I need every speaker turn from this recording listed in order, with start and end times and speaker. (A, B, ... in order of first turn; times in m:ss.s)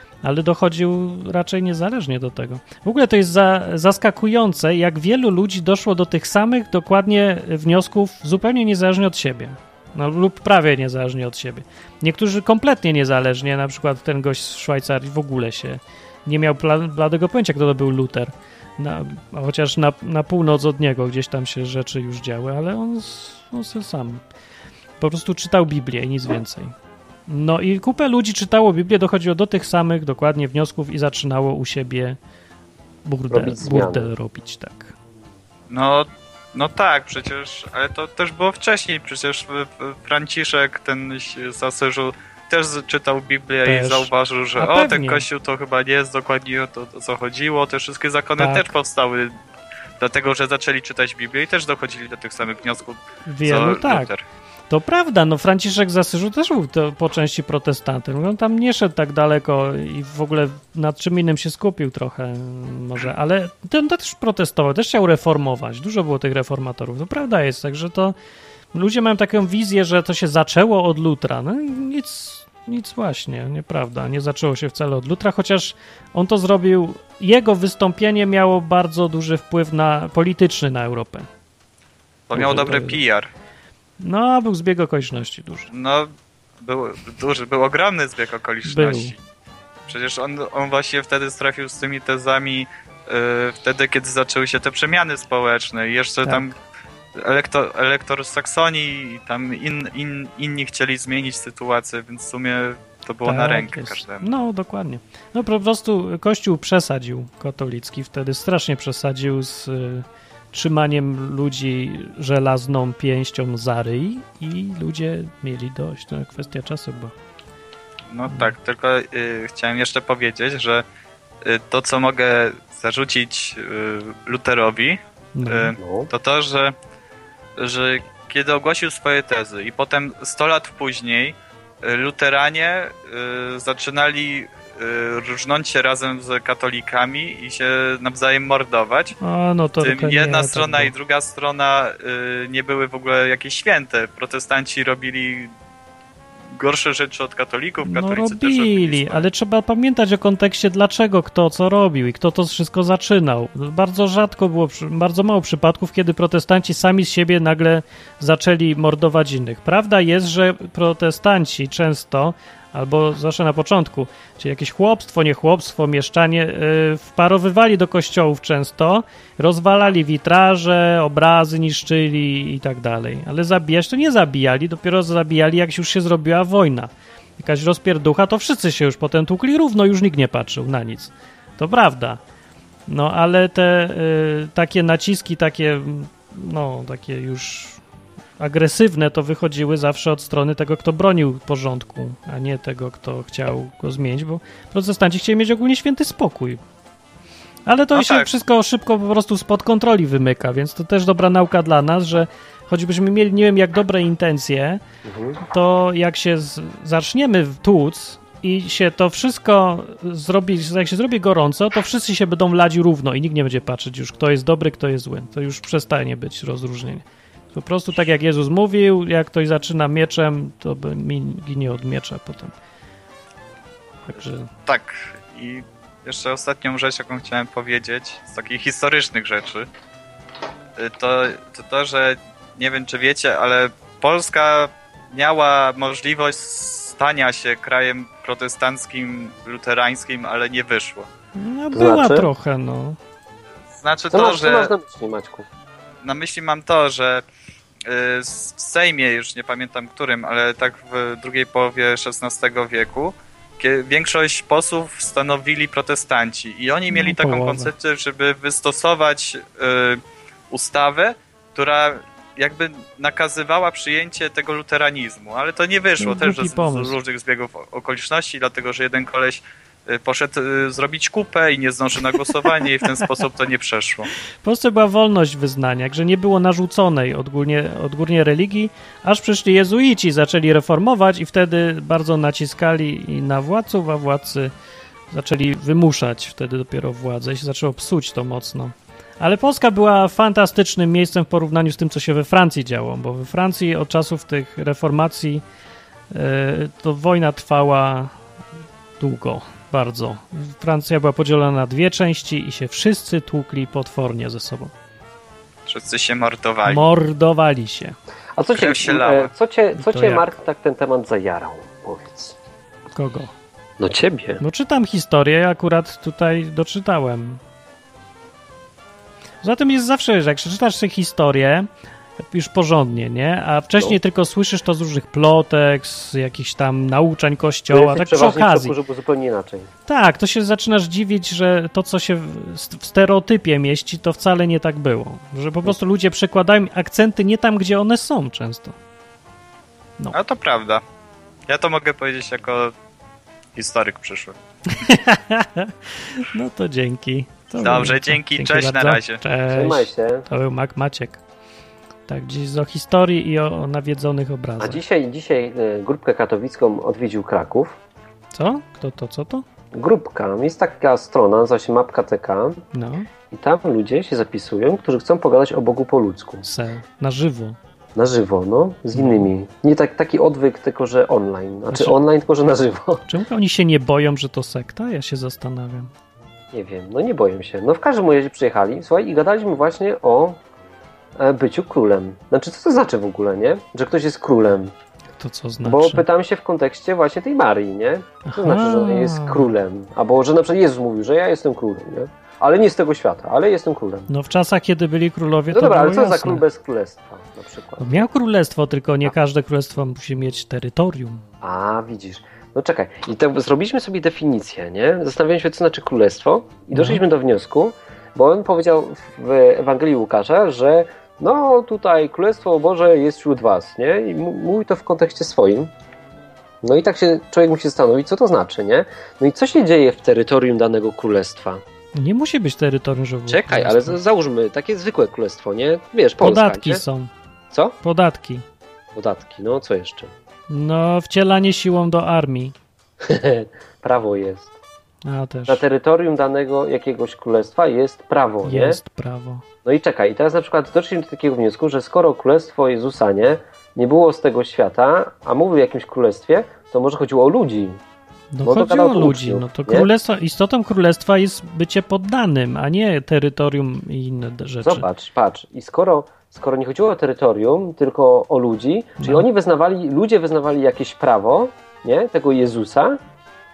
0:00.2-0:24.2 A
0:25.0-0:26.7 A
0:27.3-0:32.2 A
0:33.0-0:34.9 A
0:33.3-0:34.1 B
0:35.7-0:49.3 C
0:43.6-0:45.2 A
0:48.4-0:48.7 A
0:50.0-0:54.2 C
0:53.2-0:54.1 A
0:54.7-1:08.1 A
1:08.7-1:21.3 A
1:22.3-1:23.3 C
1:22.3-1:23.0 A
1:24.0-1:25.7 A
1:25.7-1:29.2 C
1:28.6-1:29.1 A
1:29.9-1:36.5 C
1:37.2-1:44.3 C
1:43.2-1:57.1 A
1:58.1-2:00.8 C
2:01.4-2:06.7 C
2:05.4-2:05.8 A
2:05.8-2:06.1 B
2:07.6-2:19.2 C
2:19.2-2:20.9 A
2:19.8-2:25.5 C
2:26.5-2:29.3 C
2:27.8-3:02.2 A
3:02.9-3:07.8 A
3:08.4-3:16.6 A
3:17.6-3:24.8 A
3:17.9-3:18.3 C
3:25.0-3:25.4 B
3:25.4-3:42.5 A
3:44.1-3:44.5 A
3:44.2-3:49.7 C
3:50.8-4:01.1 C
4:01.3-4:03.0 A
4:01.7-4:02.3 B
4:03.7-4:04.7 C
4:04.1-4:05.5 B
4:06.0-4:07.2 C
4:07.8-4:34.1 C
4:16.9-4:17.7 A
4:26.0-4:27.0 A
4:32.1-4:33.2 A
4:34.4-4:44.5 A
4:45.1-4:55.4 A
4:56.1-4:58.1 A
4:59.0-5:04.7 A
5:05.7-5:06.8 C
5:06.6-5:08.0 A
5:08.3-5:12.4 B
5:08.5-5:09.3 C
5:09.8-5:10.3 A
5:12.9-5:13.3 A
5:13.8-5:14.4 B
5:14.4-5:17.4 A
5:19.4-5:21.7 A
5:22.3-5:28.7 A
5:27.7-5:29.7 B
5:29.9-5:38.8 A
5:40.1-5:40.8 C
5:41.5-5:42.7 C
5:43.6-5:44.3 C
5:44.7-5:51.2 A
5:47.6-5:49.2 C
5:49.5-5:50.2 B
5:52.1-5:54.8 A
5:54.6-5:57.8 B
5:58.3-5:59.4 A
5:59.7-6:02.6 B
6:02.7-6:03.1 A
6:03.3-6:06.4 B
6:06.4-6:07.6 A
6:07.9-6:13.0 B
6:08.9-6:09.3 A
6:11.7-6:12.0 A
6:13.1-6:15.9 A
6:16.5-6:20.4 B
6:21.2-6:24.7 B
6:25.2-6:26.0 A
6:25.6-6:34.1 B
6:28.2-6:29.5 A
6:34.1-6:36.4 A
6:35.5-6:38.0 B
6:37.8-6:41.2 A
6:41.4-6:55.7 B
6:46.7-6:47.0 A
6:56.6-7:01.6 B
7:01.9-7:04.0 A
7:03.3-7:06.8 B
7:06.2-7:07.1 A
7:07.5-7:07.8 B
7:07.8-7:08.4 A
7:08.9-7:10.1 B
7:10.5-7:12.5 A
7:13.0-7:14.5 B
7:15.0-7:15.6 A
7:15.5-7:18.8 B
7:18.4-7:19.4 A
7:19.6-7:27.8 B
7:28.3-7:34.8 A
7:28.4-7:29.9 B
7:34.6-7:43.0 B
7:39.0-7:39.2 A